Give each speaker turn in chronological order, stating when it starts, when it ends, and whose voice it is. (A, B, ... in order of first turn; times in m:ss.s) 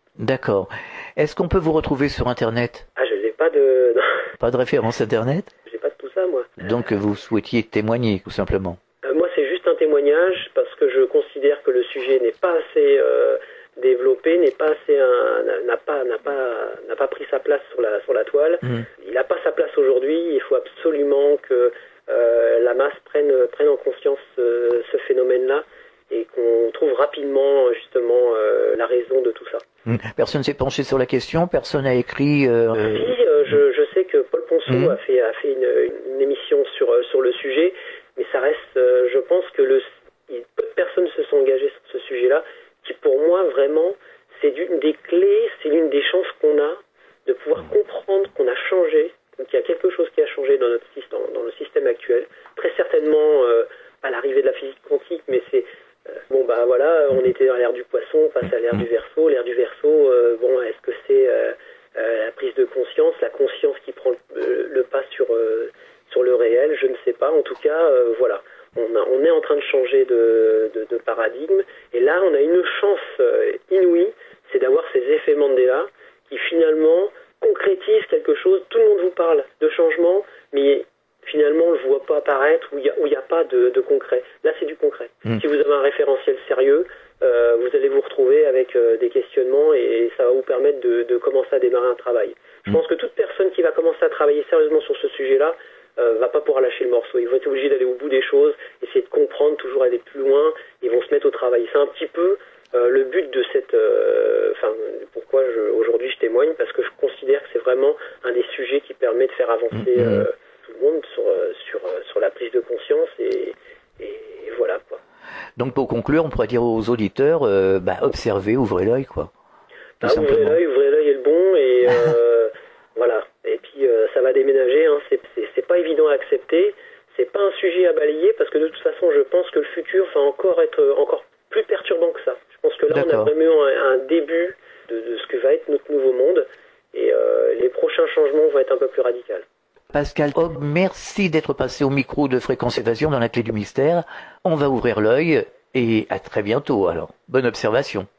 0:00.2-0:02.9 A
0:03.0-0:04.3 B
0:04.4-0:05.5 A
0:05.7-0:06.7 B
0:06.6-0:08.8 A
0:09.0-0:29.6 B
0:29.9-0:33.2 A
0:32.8-1:55.0 B
0:34.7-0:35.0 A
1:49.9-1:50.3 A
1:55.6-1:59.3 A
2:00.0-2:00.6 A
2:00.0-2:19.4 B
2:12.9-2:13.3 A
2:19.9-2:28.1 A